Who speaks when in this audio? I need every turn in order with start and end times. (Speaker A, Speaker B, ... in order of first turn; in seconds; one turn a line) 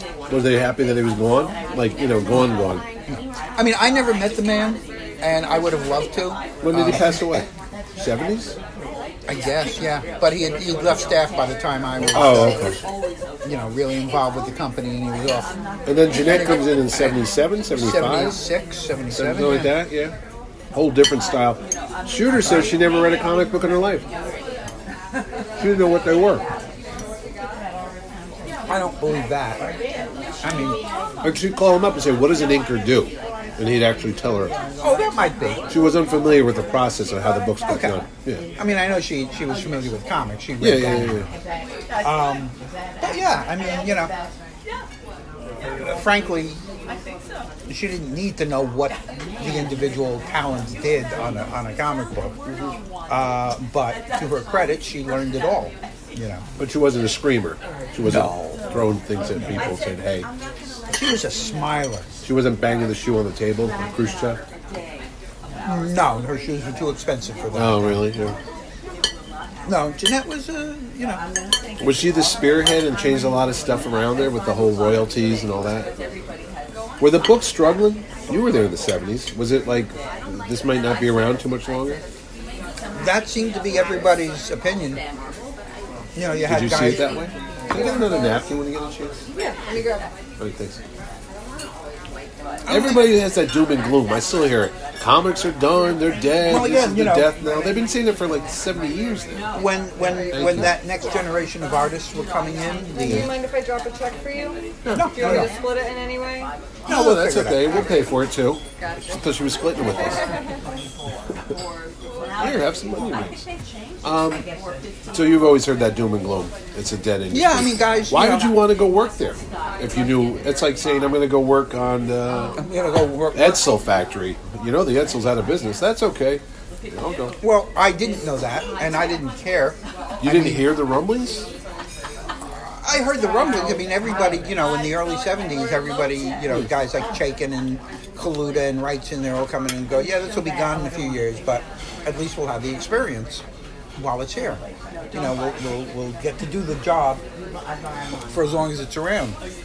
Speaker A: 0.3-2.8
Speaker B: 3.1-7.4
Speaker A: 6.6-8.6
Speaker B: 9.3-12.8
Speaker A: 12.1-12.8
Speaker B: 13.4-15.5
Speaker A: 15.8-18.4
Speaker B: 16.1-17.2
Speaker B: 17.7-19.7
Speaker A: 19.1-20.1
Speaker A: 20.7-24.0
Speaker B: 22.4-22.7
Speaker A: 25.6-26.4
Speaker B: 28.7-29.7
Speaker B: 30.4-30.8
Speaker A: 31.2-34.5
Speaker B: 34.8-35.6
Speaker A: 35.7-38.4
Speaker B: 37.7-38.0
Speaker B: 38.6-41.3
Speaker A: 40.6-41.3
Speaker B: 42.0-44.1
Speaker B: 45.8-46.6
Speaker B: 47.7-52.3
Speaker B: 53.1-56.4
Speaker A: 56.6-60.3
Speaker B: 58.0-58.6
Speaker B: 59.3-59.6
Speaker B: 60.9-62.1
Speaker A: 62.2-64.4
Speaker B: 65.6-68.0
Speaker A: 67.5-68.4
Speaker B: 69.7-71.2
Speaker A: 71.8-75.9
Speaker A: 77.0-82.0
Speaker B: 83.0-85.0
Speaker B: 86.2-87.1
Speaker A: 86.5-89.2
Speaker C: 89.4-90.1
Speaker A: 90.4-90.8
Speaker B: 92.7-93.0
Speaker A: 92.7-99.4
Speaker B: 96.5-97.3
Speaker B: 99.5-103.3
Speaker A: 100.3-100.7
Speaker C: 103.0-106.5
Speaker A: 104.8-105.5
Speaker B: 104.9-105.5
Speaker B: 106.9-107.9
Speaker A: 106.9-110.2
Speaker A: 112.4-113.4
Speaker A: 114.0-114.5
Speaker A: 115.1-122.6
Speaker B: 117.3-118.5
Speaker B: 122.6-123.6
Speaker A: 123.3-127.3
Speaker B: 127.4-130.6
Speaker A: 130.2-131.5
Speaker B: 132.8-143.4
Speaker B: 144.0-147.2
Speaker B: 148.3-149.4